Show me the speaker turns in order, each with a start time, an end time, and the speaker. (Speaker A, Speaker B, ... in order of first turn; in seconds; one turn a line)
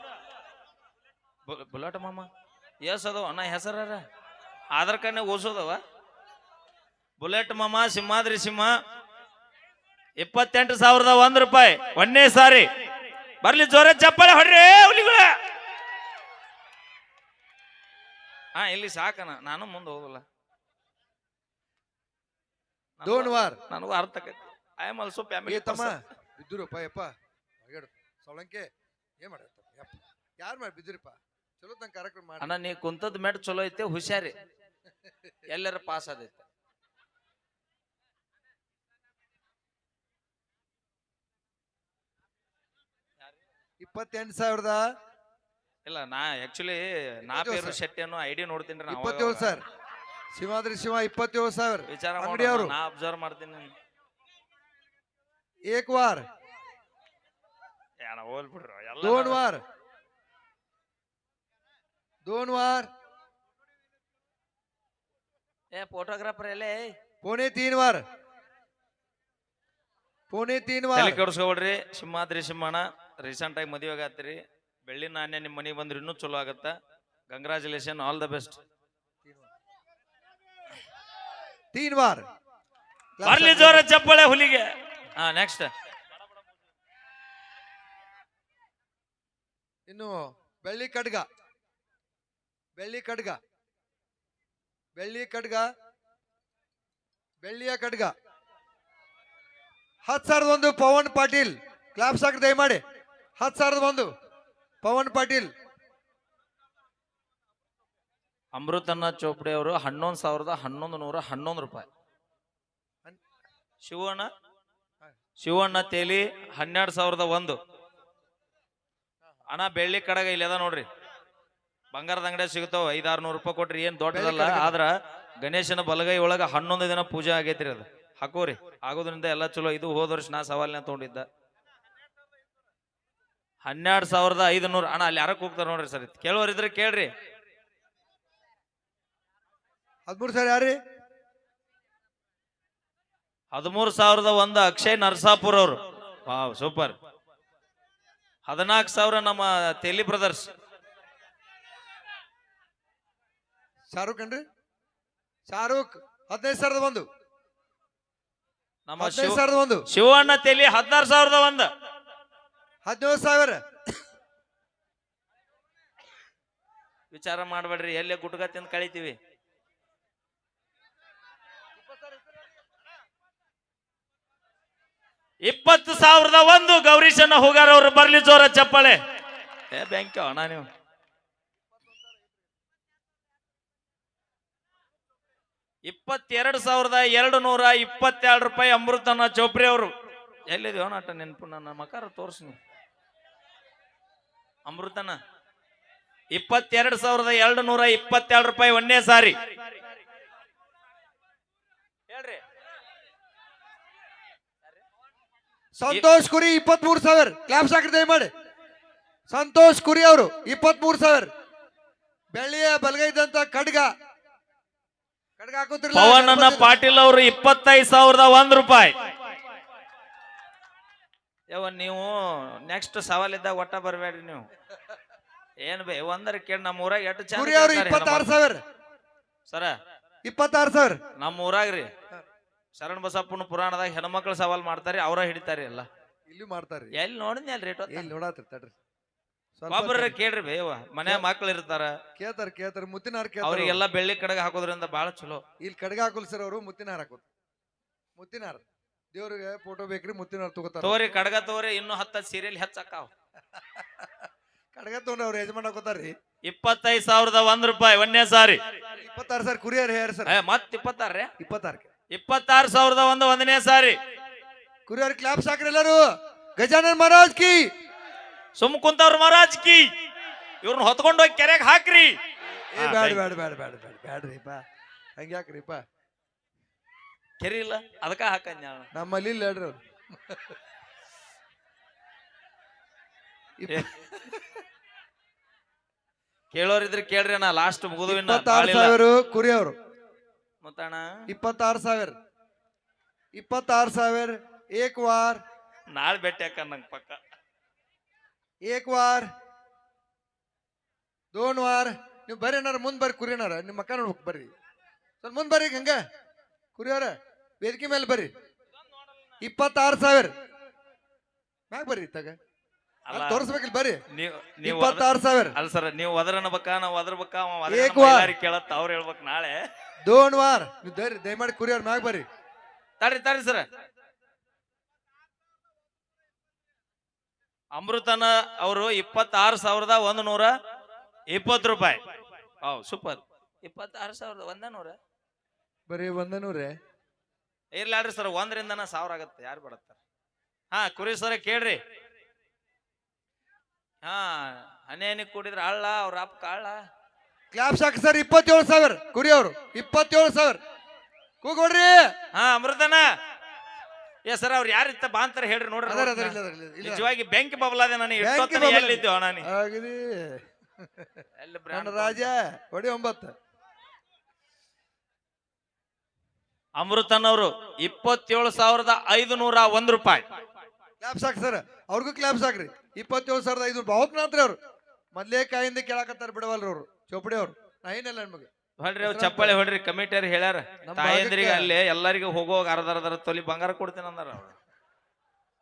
Speaker A: 1.5-2.3
Speaker A: 2.8-4.0
Speaker A: 4.7-5.8
Speaker A: 7.2-8.7
Speaker A: 10.2-12.7
Speaker A: 13.4-15.3
Speaker A: 18.5-20.2
Speaker A: 23.0-25.9
Speaker B: 23.0-23.6
Speaker B: 25.4-27.1
Speaker B: 27.6-28.6
Speaker B: 29.2-32.5
Speaker A: 32.4-34.4
Speaker A: 35.5-36.4
Speaker B: 43.8-44.8
Speaker A: 45.8-49.6
Speaker B: 47.3-47.8
Speaker B: 48.9-49.6
Speaker B: 50.3-52.7
Speaker A: 51.9-53.7
Speaker B: 55.7-56.2
Speaker A: 58.0-59.4
Speaker B: 59.0-59.6
Speaker B: 62.2-62.9
Speaker A: 65.7-66.9
Speaker B: 67.2-68.0
Speaker B: 70.3-71.2
Speaker A: 70.9-76.7
Speaker A: 77.3-78.6
Speaker B: 81.7-82.2
Speaker B: 83.2-83.8
Speaker A: 83.2-85.7
Speaker B: 89.9-91.2
Speaker B: 92.8-93.4
Speaker B: 95.0-95.7
Speaker B: 97.4-98.1
Speaker B: 100.0-102.8
Speaker B: 103.4-104.1
Speaker B: 104.8-105.5
Speaker A: 108.5-111.9
Speaker A: 113.8-114.3
Speaker A: 115.4-117.6
Speaker A: 119.5-120.8
Speaker A: 121.9-131.2
Speaker B: 124.1-124.8
Speaker A: 133.6-137.1
Speaker B: 140.1-140.8
Speaker A: 143.5-146.9
Speaker A: 148.4-150.5
Speaker B: 153.9-154.4
Speaker B: 155.5-157.1
Speaker A: 158.8-161.7
Speaker B: 159.0-159.8
Speaker B: 162.8-163.6
Speaker A: 167.1-169.2
Speaker A: 175.4-179.0
Speaker A: 179.7-180.7
Speaker A: 185.8-189.9
Speaker A: 190.5-192.6
Speaker A: 194.7-195.2
Speaker A: 196.3-199.3
Speaker A: 202.1-202.4
Speaker B: 205.8-208.3
Speaker B: 209.3-211.3
Speaker B: 212.3-213.9
Speaker B: 215.4-216.7
Speaker A: 215.9-218.9
Speaker A: 221.5-224.4
Speaker A: 225.6-228.3
Speaker B: 227.3-228.6
Speaker A: 229.5-229.7
Speaker B: 230.2-231.0
Speaker A: 231.2-231.9
Speaker A: 232.7-235.9
Speaker B: 236.3-236.9
Speaker A: 236.9-238.1
Speaker B: 237.9-238.8
Speaker B: 239.6-240.2
Speaker A: 239.7-241.9
Speaker B: 242.2-243.8
Speaker A: 243.4-245.4
Speaker B: 245.6-247.3
Speaker B: 248.2-248.6
Speaker B: 249.1-251.0
Speaker A: 250.8-253.1
Speaker B: 253.6-254.1
Speaker B: 254.7-256.1
Speaker A: 256.4-258.6
Speaker B: 259.0-260.4
Speaker A: 260.3-261.3
Speaker B: 261.4-261.9
Speaker A: 262.1-263.9
Speaker B: 264.9-266.0
Speaker B: 266.6-267.7
Speaker A: 268.6-269.9
Speaker A: 270.6-272.1
Speaker B: 272.7-274.6
Speaker A: 272.8-273.2
Speaker B: 275.2-275.8
Speaker A: 277.4-278.9
Speaker B: 278.9-280.5
Speaker B: 283.6-284.6
Speaker A: 286.5-289.0
Speaker B: 288.1-289.7
Speaker A: 290.6-291.1
Speaker B: 291.3-292.1
Speaker B: 293.3-295.4
Speaker A: 295.9-297.2
Speaker B: 298.6-299.3
Speaker B: 301.3-304.5
Speaker B: 305.2-306.0
Speaker B: 306.8-308.3
Speaker B: 309.4-310.3
Speaker B: 311.7-312.3
Speaker A: 313.1-313.5
Speaker B: 313.1-314.0
Speaker A: 314.1-319.6
Speaker B: 314.6-315.5
Speaker B: 317.7-318.3
Speaker B: 320.0-322.2
Speaker A: 323.0-323.6
Speaker A: 327.7-330.5
Speaker A: 331.3-332.0
Speaker A: 332.6-334.9
Speaker B: 335.9-336.7
Speaker A: 337.7-340.0
Speaker A: 340.7-341.8
Speaker A: 344.0-346.8
Speaker B: 347.5-350.6
Speaker B: 351.4-352.0
Speaker A: 352.3-353.0
Speaker A: 354.2-359.5
Speaker B: 355.9-357.1
Speaker B: 358.2-360.4
Speaker B: 361.0-363.3
Speaker A: 361.4-362.3
Speaker A: 366.7-370.2
Speaker B: 371.0-374.6
Speaker B: 375.1-379.6
Speaker A: 378.8-384.5
Speaker B: 380.8-381.7